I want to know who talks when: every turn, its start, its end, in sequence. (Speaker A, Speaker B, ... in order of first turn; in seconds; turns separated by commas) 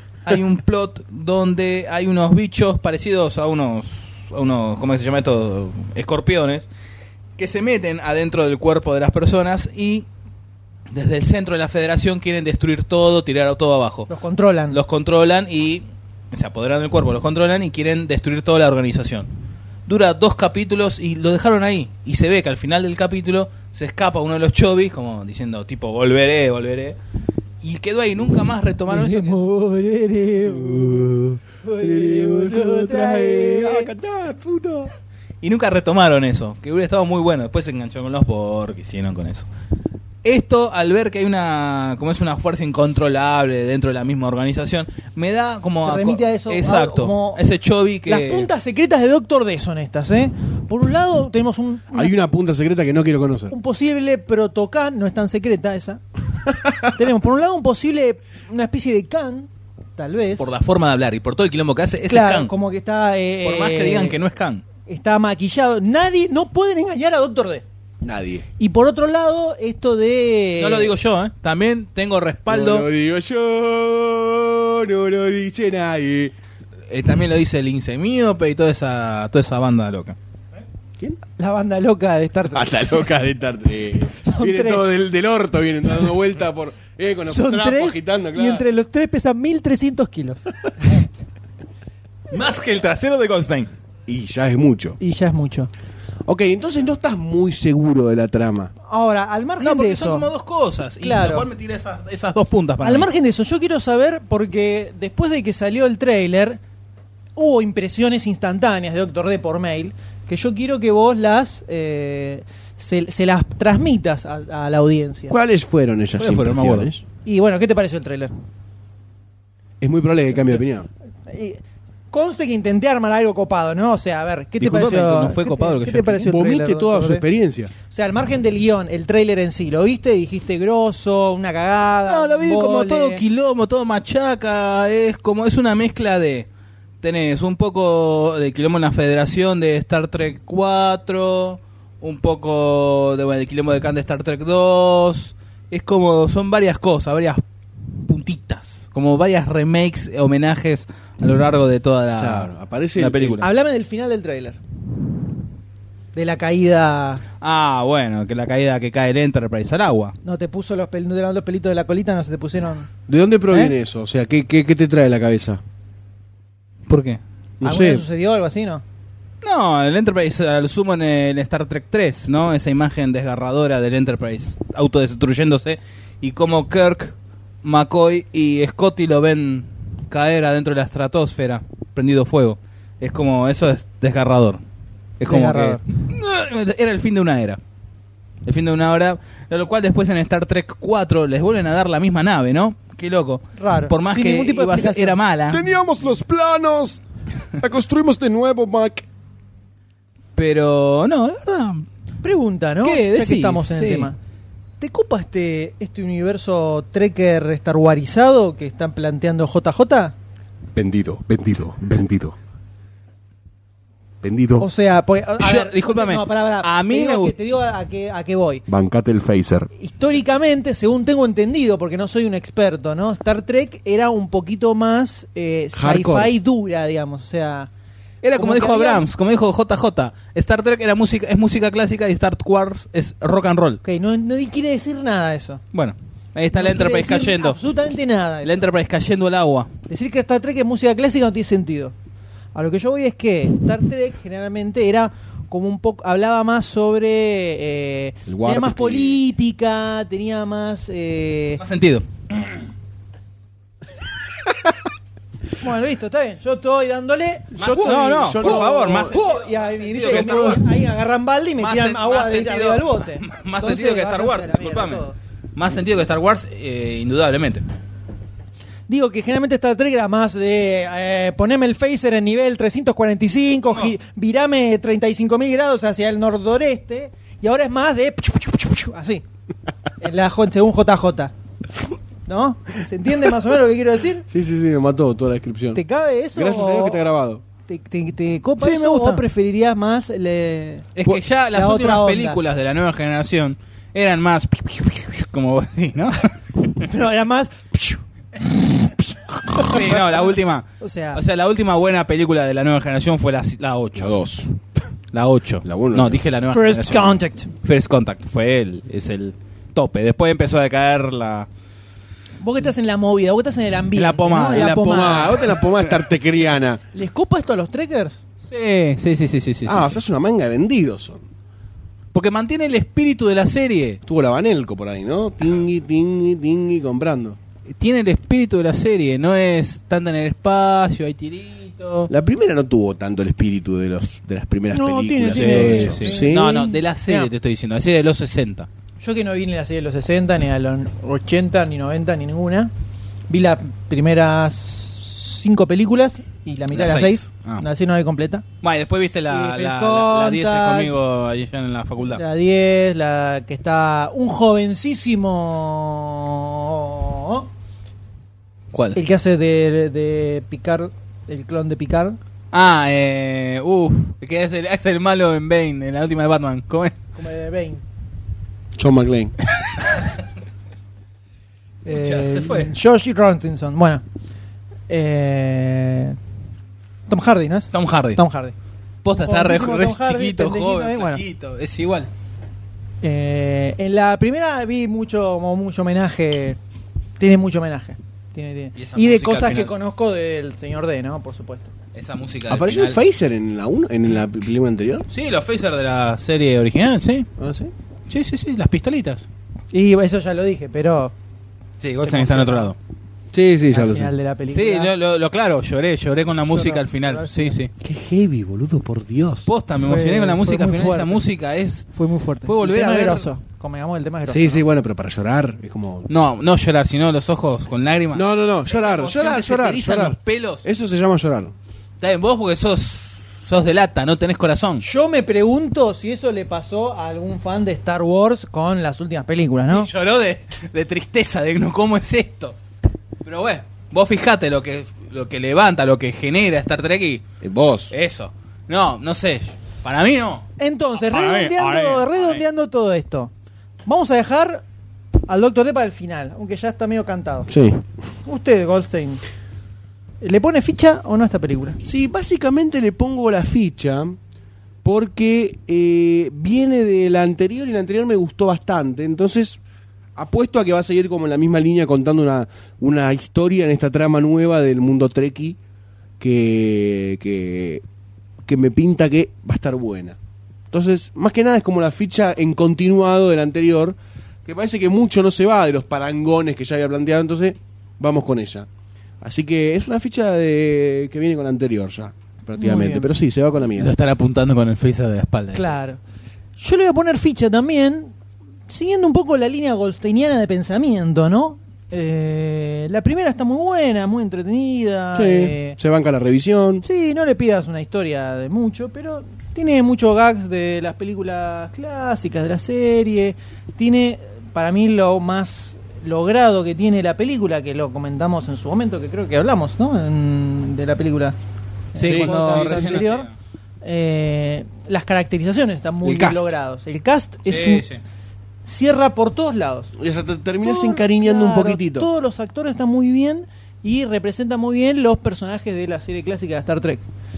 Speaker A: 0.2-6.7, Speaker A: 7.4-10.1, Speaker A: 10.9-14.1, Speaker B: 14.1-14.8, Speaker A: 14.7-19.3, Speaker A: 19.9-27.0, Speaker A: 27.6-29.4, Speaker B: 28.9-31.1, Speaker C: 30.4-34.9, Speaker B: 31.6-33.9, Speaker A: 35.4-39.5, Speaker A: 40.2-48.5, Speaker B: 45.8-47.4, Speaker B: 48.1-52.1, Speaker C: 51.9-53.5, Speaker B: 53.5-56.0, Speaker B: 56.9-60.5, Speaker A: 60.4-62.5, Speaker B: 62.1-64.2, Speaker A: 63.4-64.6, Speaker B: 64.9-67.6, Speaker C: 68.0-68.5, Speaker B: 68.6-70.9, Speaker A: 70.6-72.9, Speaker C: 72.5-76.3, Speaker A: 76.9-80.2, Speaker B: 81.4-82.8, Speaker C: 82.5-88.6, Speaker B: 84.2-84.9, Speaker B: 87.3-91.1, Speaker A: 92.3-93.7, Speaker C: 94.1-95.0, Speaker B: 95.0-95.7, Speaker C: 96.3-98.7, Speaker B: 98.9-100.3, Speaker A: 99.6-103.1, Speaker B: 101.0-101.5, Speaker B: 102.8-106.6, Speaker B: 107.4-115.3, Speaker C: 115.3-117.0, Speaker A: 116.2-116.9, Speaker B: 117.2-118.3, Speaker C: 119.8-120.9, Speaker B: 121.3-127.2, Speaker A: 124.6-126.3, Speaker C: 126.3-127.7, Speaker B: 127.9-133.2, Speaker A: 132.1-136.5, Speaker A: 137.0-147.4, Speaker A: 148.0-153.5, Speaker C: 152.2-153.5, Speaker B: 153.4-154.6, Speaker B: 156.1-157.2, Speaker A: 157.4-160.2, Speaker B: 160.2-162.9, Speaker C: 163.1-165.6, Speaker A: 166.9-167.2, Speaker C: 167.6-168.0, Speaker B: 167.6-168.8, Speaker A: 169.4-184.6, Speaker A: 185.2-187.6, Speaker B: 185.3-185.8, Speaker A: 188.4-195.6, Speaker B: 193.6-195.2, Speaker C: 195.5-197.0, Speaker C: 197.6-199.1, Speaker A: 200.4-201.9, Speaker B: 202.2-204.2, Speaker A: 202.8-204.1, Speaker B: 204.8-210.1, Speaker C: 210.8-212.4, Speaker C: 214.2-214.7, Speaker B: 214.6-218.7, Speaker A: 215.4-217.3, Speaker C: 218.7-219.7, Speaker B: 219.8-227.7, Speaker C: 225.8-226.3, Speaker A: 228.2-233.8, Speaker B: 228.4-229.0, Speaker B: 233.8-235.6, Speaker A: 235.7-237.6, Speaker B: 236.5-238.5, Speaker A: 238.4-239.7, Speaker B: 239.9-241.9, Speaker B: 242.6-251.6, Speaker C: 248.3-249.2, Speaker A: 251.6-252.6, Speaker B: 255.6-265.2, Speaker C: 257.5-259.2, Speaker A: 257.6-260.6, Speaker C: 260.0-260.6, Speaker A: 261.6-267.6, Speaker B: 268.9-279.2, Speaker B: 280.0-281.3, Speaker B: 282.3-284.3, Speaker C: 284.3-285.8, Speaker B: 285.7-287.0, Speaker C: 286.4-287.4, Speaker B: 287.7-292.4, Speaker A: 288.6-289.2, Speaker A: 291.0-296.3, Speaker B: 296.8-299.0, Speaker A: 299.6-304.2, Speaker B: 300.8-301.2, Speaker C: 304.0-304.5, Speaker A: 305.1-311.5, Speaker C: 305.6-306.2, Speaker B: 306.5-307.5, Speaker B: 312.4-315.4, Speaker A: 313.9-315.0, Speaker C: 314.5-316.8, Speaker B: 316.9-318.2, Speaker A: 318.5-320.0, Speaker C: 319.6-321.2, Speaker A: 322.1-324.0, Speaker C: 324.1-327.4, Speaker A: 327.7-332.1, Speaker C: 332.1-336.6, Speaker B: 334.7-337.3, Speaker A: 335.2-338.7, Speaker B: 339.0-342.7, Speaker B: 343.3-348.4, Speaker A: 346.7-347.6, Speaker A: 348.6-352.2, Speaker B: 349.3-350.9, Speaker B: 352.1-357.5, Speaker A: 358.7-359.0, Speaker B: 358.9-362.2, Speaker A: 362.5-366.9, Speaker B: 367.1-367.8, Speaker C: 368.8-369.3, Speaker A: 369.6-370.1, Speaker B: 371.9-374.0, Speaker A: 371.9-372.7, Speaker B: 374.9-376.2, Speaker B: 377.1-378.6, Speaker A: 377.7-378.2, Speaker A: 379.0-382.1, Speaker B: 379.2-381.2, Speaker B: 383.0-386.6, Speaker B: 387.2-391.7, Speaker A: 388.8-389.7, Speaker A: 391.9-393.0, Speaker C: 392.5-395.1, Speaker A: 395.1-397.3, Speaker C: 397.4-397.7, Speaker A: 398.1-399.3, Speaker B: 399.7-401.1, Speaker A: 401.8-402.8, Speaker B: 402.0-402.7, Speaker C: 403.3-404.1, Speaker B: 403.7-404.9, Speaker A: 404.5-407.7, Speaker B: 406.5-407.6, Speaker C: 407.8-409.5, Speaker A: 409.5-411.9, Speaker B: 409.8-411.2, Speaker B: 411.9-414.6, Speaker A: 412.4-413.3, Speaker C: 414.3-416.1, Speaker A: 416.1-420.6, Speaker C: 418.1-421.5, Speaker A: 422.0-424.9, Speaker B: 424.8-429.9, Speaker A: 429.7-432.6, Speaker A: 433.2-437.2, Speaker C: 437.4-437.9, Speaker A: 437.9-442.4, Speaker B: 440.6-443.3, Speaker B: 443.9-444.6, Speaker B: 445.3-447.5, Speaker C: 447.5-447.8, Speaker B: 448.2-449.2, Speaker B: 450.2-451.8, Speaker C: 451.8-454.2, Speaker C: 454.8-459.6, Speaker C: 460.2-465.6, Speaker C: 466.2-467.8, Speaker C: 468.4-470.2, Speaker C: 470.7-478.7, Speaker C: 479.2-483.9, Speaker B: 482.6-483.1, Speaker A: 483.8-485.8, Speaker B: 485.5-486.0, Speaker B: 486.6-488.1, Speaker B: 488.7-495.8, Speaker C: 495.1-496.9, Speaker B: 496.8-511.4, Speaker B: 511.9-513.3, Speaker A: 512.0-513.3, Speaker C: 512.0-513.0, Speaker B: 513.8-517.9, Speaker C: 516.0-516.5, Speaker A: 517.5-518.0, Speaker B: 518.6-519.9, Speaker C: 520.0-522.1, Speaker B: 520.6-527.0